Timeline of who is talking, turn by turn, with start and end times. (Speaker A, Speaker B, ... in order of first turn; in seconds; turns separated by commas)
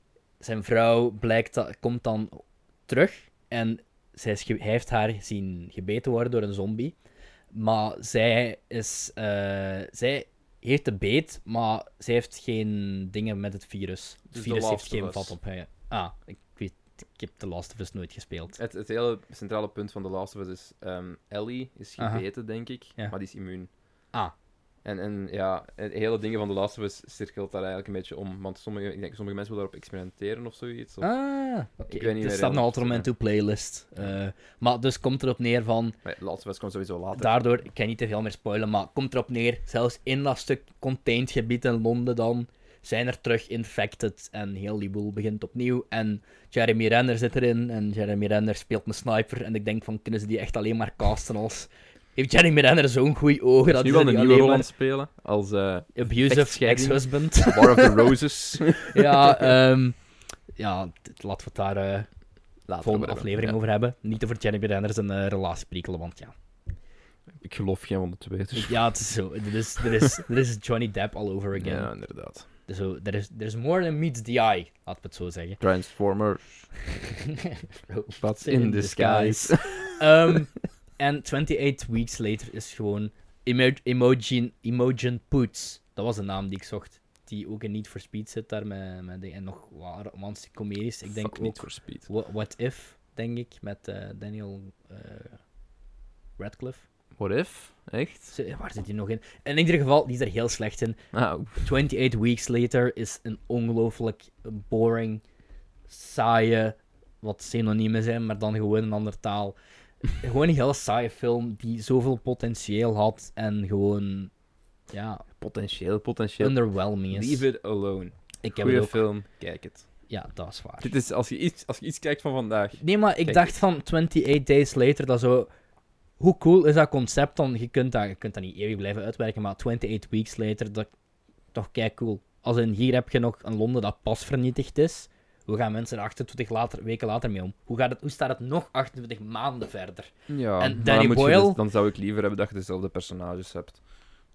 Speaker A: 0.4-7.0, Speaker A: 7.5-18.6, Speaker B: 14.3-15.3, Speaker B: 18.6-23.7, Speaker A: 22.0-22.2, Speaker B: 24.9-31.1, Speaker A: 31.0-36.0, Speaker B: 31.9-33.1, Speaker B: 36.0-37.5, Speaker A: 37.2-54.7, Speaker B: 53.7-59.5, Speaker A: 56.0-58.2, Speaker A: 58.9-60.0, Speaker A: 60.6-62.1, Speaker B: 62.7-63.6, Speaker A: 62.8-66.3, Speaker B: 67.4-69.0, Speaker A: 68.6-71.9, Speaker B: 71.5-72.5, Speaker A: 72.7-75.6, Speaker B: 75.6-76.7, Speaker A: 77.2-95.4, Speaker B: 78.2-80.4, Speaker B: 91.1-92.1, Speaker A: 96.4-96.8, Speaker B: 97.2-98.3, Speaker A: 98.3-101.0, Speaker B: 101.1-101.7, Speaker A: 101.6-105.2, Speaker A: 105.9-109.6, Speaker A: 110.2-114.3, Speaker A: 114.9-115.2, Speaker B: 115.4-119.8, Speaker A: 116.4-117.5, Speaker A: 118.4-119.0, Speaker A: 120.1-120.9, Speaker B: 120.8-123.5, Speaker A: 122.8-125.5, Speaker A: 126.2-130.9, Speaker A: 131.5-141.6, Speaker B: 140.3-143.8